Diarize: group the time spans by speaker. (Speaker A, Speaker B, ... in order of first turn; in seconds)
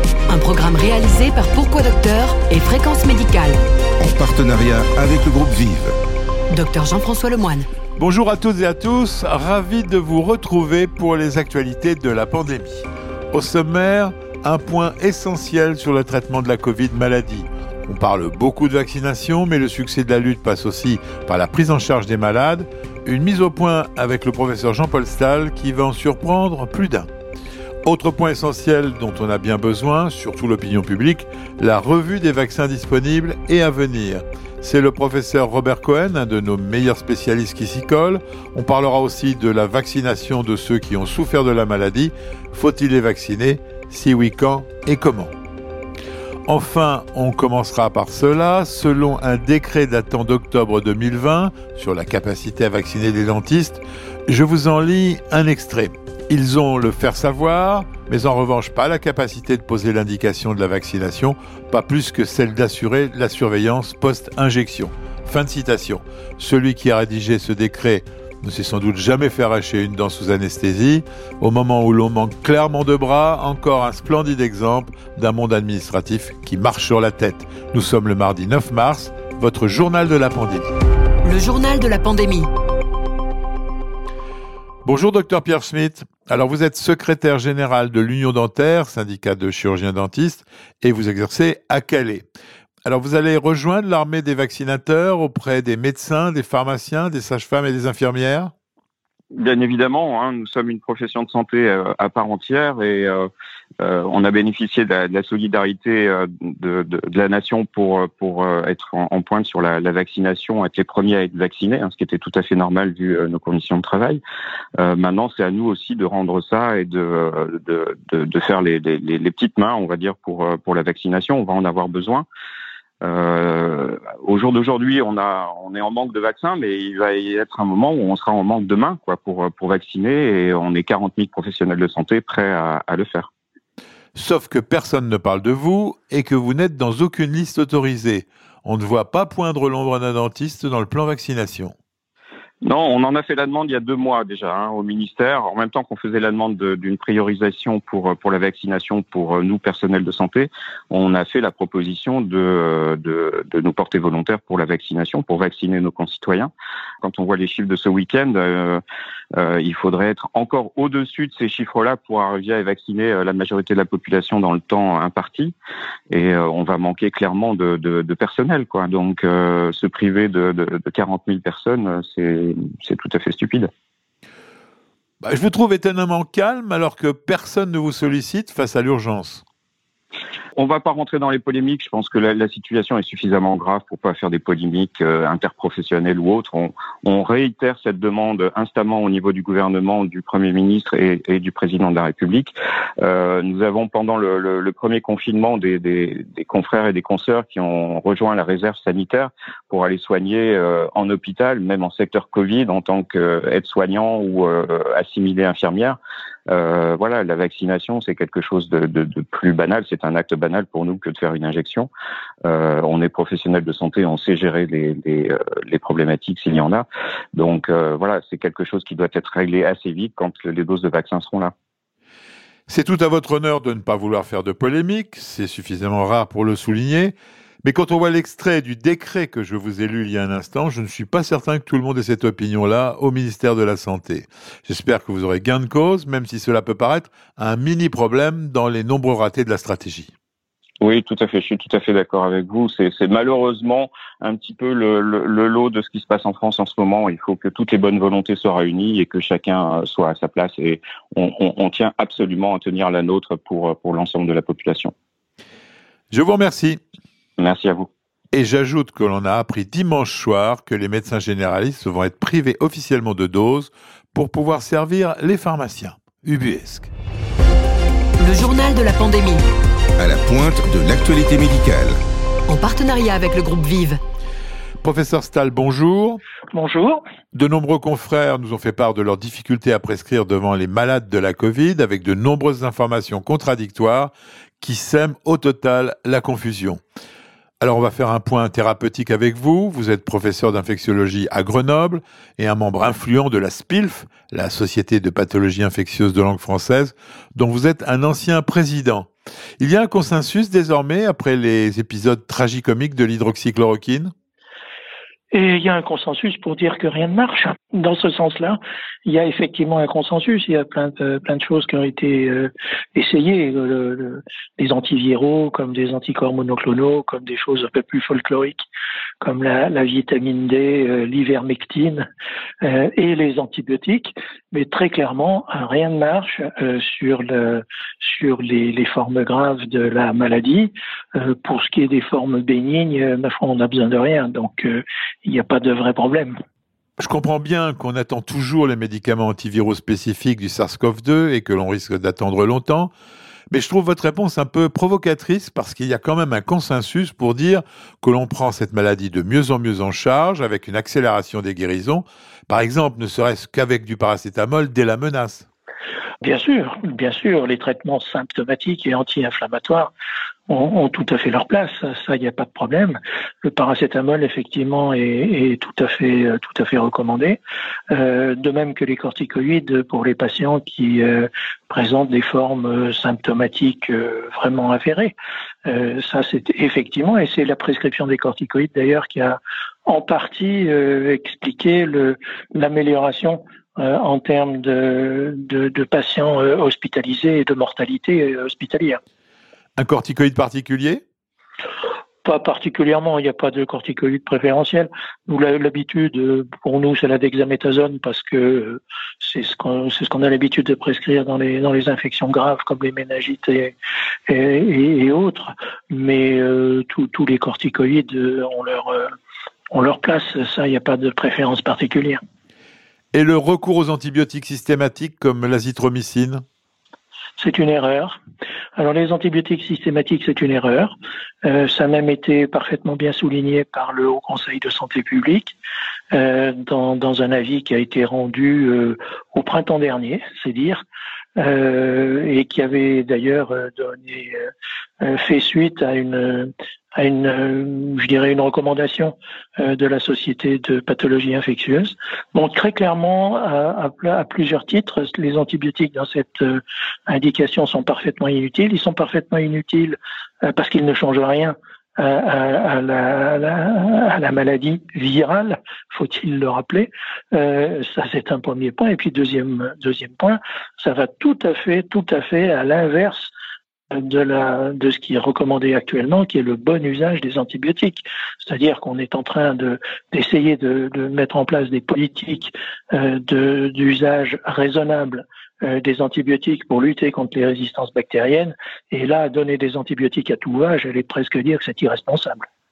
Speaker A: 0.3-3.6, 6.5-7.7, 81.2-82.5, 268.2-269.4, 272.5-274.0
Speaker B: 4.0-6.0, 270.0-272.0
Speaker C: 8.0-27.1, 27.8-45.3, 46.5-80.7, 84.8-92.2, 92.8-98.5, 134.1-141.7, 175.2-179.4, 222.7-240.1, 256.1-256.8, 258.3-266.9, 274.8-276.2, 277.3-286.8, 287.6-304.1, 337.0-342.9, 343.5-355.5, 389.8-391.0, 413.1-416.4
Speaker D: 99.3-103.3, 103.8-114.2, 114.8-122.2, 123.0-133.3, 142.6-156.5, 157.0-158.8, 159.3-165.5, 166.1-173.7, 180.6-206.0, 206.5-211.9, 212.4-221.5, 240.8-254.9, 257.4-257.9
Speaker E: 276.5-277.0, 305.3-318.6, 319.2-322.1, 322.6-336.3, 356.2-359.9, 360.5-367.4, 367.9-375.1, 375.6-389.0, 392.2-403.7, 404.3-409.1, 409.7-412.2, 417.4-418.2, 418.8-425.6, 426.1-430.8, 431.4-434.5, 435.0-463.3, 463.9-482.5